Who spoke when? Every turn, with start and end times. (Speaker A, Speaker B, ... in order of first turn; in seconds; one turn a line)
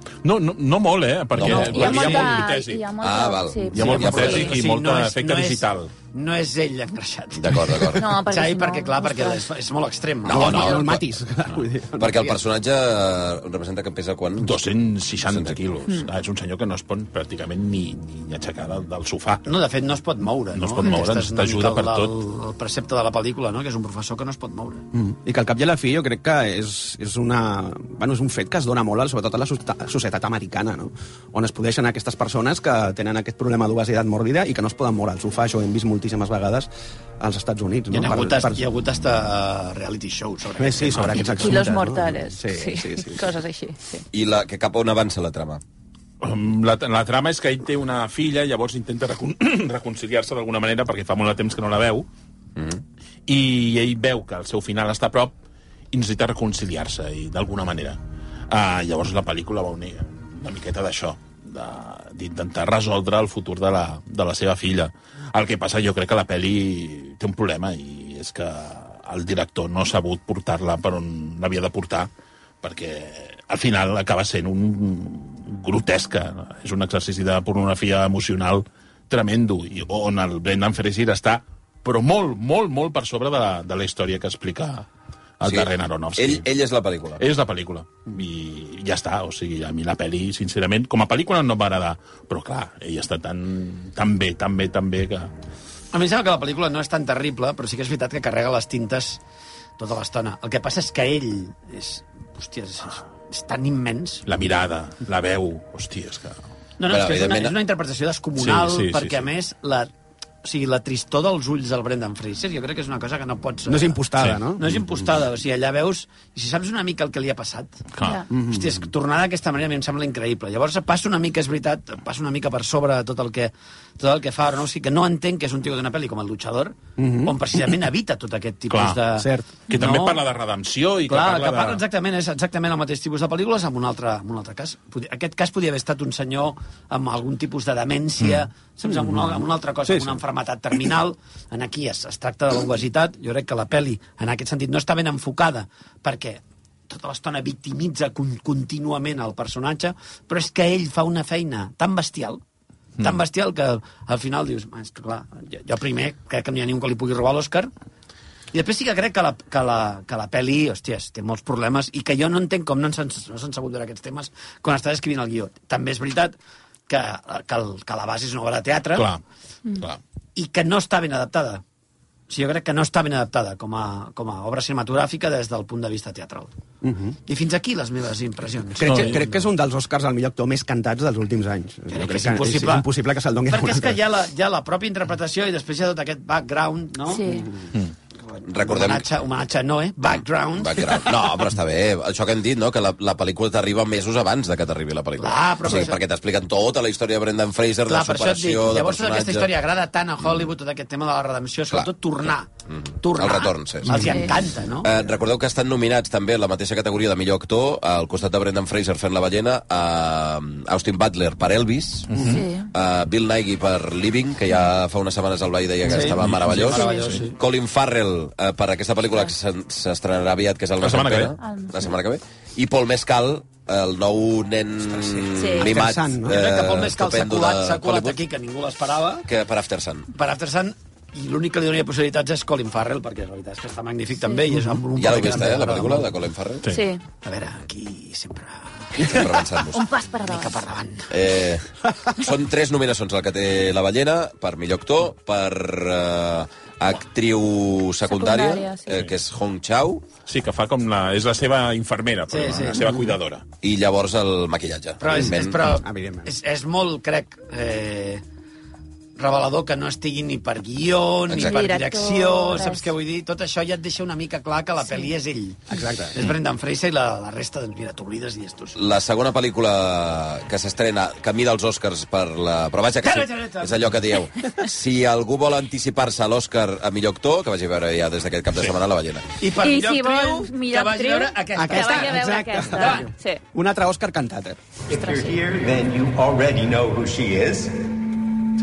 Speaker A: 0.2-2.8
Speaker B: 1.4-2.5
Speaker C: 1.5-2.1
Speaker D: 1.5-4.5
Speaker B: 3.0-4.6
Speaker A: 3.7-5.9
Speaker C: 3.8-10.9
Speaker B: 7.4-8.2
Speaker D: 8.0-9.5
Speaker B: 10.2-11.0
Speaker E: 10.3-12.4
Speaker B: 12.0-14.6
Speaker A: 14.4-19.4
Speaker B: 15.2-15.6
Speaker C: 19.4-24.8
Speaker A: 20.5-22.1
Speaker E: 24.9-38.6
Speaker C: 37.9-41.6
Speaker E: 40.6-43.3
Speaker D: 41.4-44.0
Speaker B: 44.1-45.6
Speaker A: 46.2-52.1
Speaker B: 52.6-52.8
Speaker A: 53.3-55.3
Speaker A: 55.9-58.0
Speaker A: 58.5-72.1
Speaker A: 72.6-84.9
Speaker A: 85.4-86.5
Speaker B: 85.4-87.2
Speaker A: 87.2-95.3
Speaker C: 95.9-99.2
Speaker C: 99.8-104.2
Speaker A: 104.3-106.4
Speaker C: 106.8-109.9
Speaker B: 106.9-107.6
Speaker A: 108.4-109.3
Speaker C: 110.4-114.0
Speaker E: 113.7-114.6
Speaker C: 114.6-117.8
Speaker A: 117.9-118.2
Speaker E: 118.3-118.7
Speaker C: 118.3-130.2
Speaker E: 127.0-127.4
Speaker A: 128.7-129.0
Speaker E: 129.2-129.5
Speaker A: 129.7-131.8
Speaker C: 131.1-152.4
Speaker E: 139.9-140.2
Speaker C: 153.0-157.7
Speaker C: 158.5-166.4
Speaker C: 166.9-169.1
Speaker A: 168.9-169.2
Speaker C: 170.4-171.6
Speaker C: 172.3-176.5
Speaker E: 176.8-177.2
Speaker C: 177.3-179.3
Speaker E: 178.8-184.0
Speaker A: 178.8-179.2
Speaker C: 181.9-182.9
Speaker C: 183.5-187.5
Speaker D: 187.1-187.5
Speaker C: 188.3-190.9
Speaker B: 188.5-189.1
Speaker B: 190.5-199.5
Speaker C: 195.2-196.0
Speaker C: 197.9-202.5
Speaker B: 202.7-204.2
Speaker C: 203.0-204.9
Speaker B: 204.8-228.2
Speaker A: 212.1-212.4
Speaker D: 212.2-212.7
Speaker C: 215.9-217.4
Speaker A: 215.9-217.2
Speaker D: 216.7-217.2
Speaker A: 220.8-221.3
Speaker D: 221.4-221.9
Speaker E: 225.0-226.4
Speaker D: 225.3-225.7
Speaker C: 226.3-229.3
Speaker B: 229.3-230.1
Speaker C: 230.1-236.1
Speaker B: 234.9-236.7
Speaker D: 236.7-237.0
Speaker C: 237.2-239.3
Speaker B: 239.0-239.8
Speaker D: 239.7-240.6
Speaker C: 240.2-241.1
Speaker B: 241.1-250.1
Speaker D: 248.1-249.0
Speaker A: 250.3-253.4
Speaker C: 252.3-253.0
Speaker B: 253.6-255.8
Speaker C: 255.0-258.2
Speaker E: 255.1-256.3
Speaker C: 259.2-268.8
Speaker B: 261.3-261.6
Speaker D: 261.4-262.9
Speaker D: 264.9-265.1
Speaker E: 265.7-266.2
Speaker B: 268.8-279.3
Speaker C: 273.0-273.9
Speaker C: 279.4-283.1
Speaker D: 279.6-283.4
Speaker E: 281.6-284.6
Speaker D: 284.9-285.4
Speaker F: 284.9-287.9